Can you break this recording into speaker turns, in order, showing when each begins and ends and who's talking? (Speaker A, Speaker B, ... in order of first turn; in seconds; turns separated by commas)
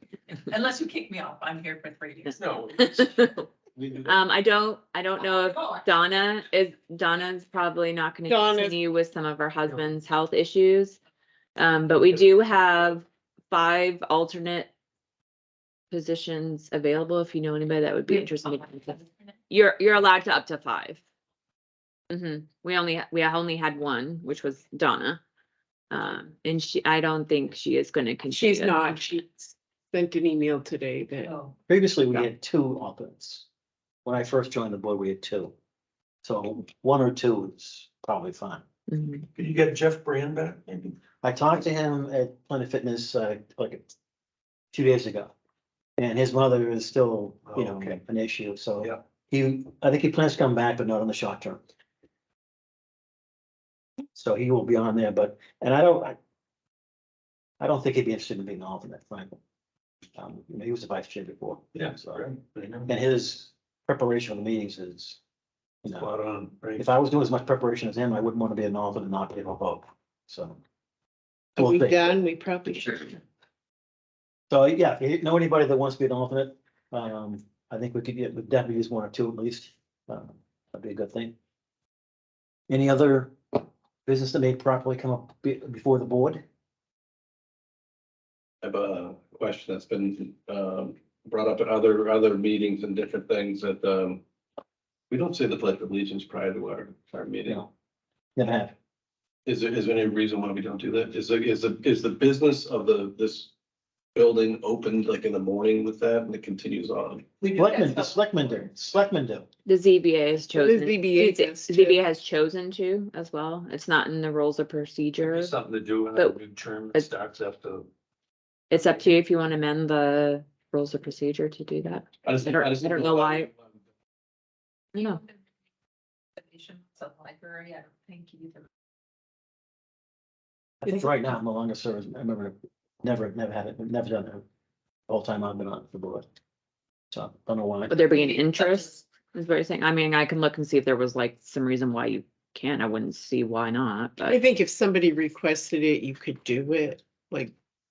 Speaker A: 0.3-2.7, Speaker B: 2.4-3.9, Speaker C: 2.7-3.4, Speaker C: 4.1-11.0, Speaker A: 5.2-5.9, Speaker D: 8.3-8.8, Speaker C: 11.6-14.7, Speaker C: 15.9-21.0, Speaker A: 18.1-19.0, Speaker C: 22.1-25.2, Speaker C: 25.9-29.0, Speaker D: 28.3-31.3, Speaker A: 31.3-31.6, Speaker E: 31.7-33.5, Speaker E: 34.0-35.5, Speaker E: 36.2-38.6, Speaker C: 38.9-39.2, Speaker B: 39.4-41.0, Speaker E: 41.2-43.8, Speaker E: 44.7-45.3, Speaker E: 46.0-51.6, Speaker B: 47.5-48.0, Speaker E: 54.1-56.2, Speaker E: 57.6-59.4, Speaker E: 60.1-62.3, Speaker B: 61.8-62.9, Speaker E: 62.9-65.2, Speaker E: 65.8-66.1, Speaker B: 65.9-66.9, Speaker E: 66.7-70.6, Speaker D: 71.6-73.2, Speaker E: 71.6-72.1, Speaker E: 74.5-81.3, Speaker E: 82.7-83.4, Speaker E: 84.0-86.4, Speaker F: 88.6-94.2, Speaker F: 95.1-97.6, Speaker E: 98.4-98.7, Speaker F: 99.5-103.5, Speaker F: 104.2-107.3, Speaker A: 107.4-108.2, Speaker E: 107.5-109.5, Speaker C: 109.7-115.6, Speaker D: 110.5-112.0, Speaker B: 115.2-117.9, Speaker C: 118.7-123.5, Speaker F: 122.2-123.8, Speaker C: 125.0-125.2, Speaker A: 126.4-128.7, Speaker E: 130.8-134.4, Speaker E: 135.1-136.3, Speaker E: 137.1-137.9, Speaker C: 137.9-144.4, Speaker A: 138.3-138.9, Speaker D: 144.3-147.5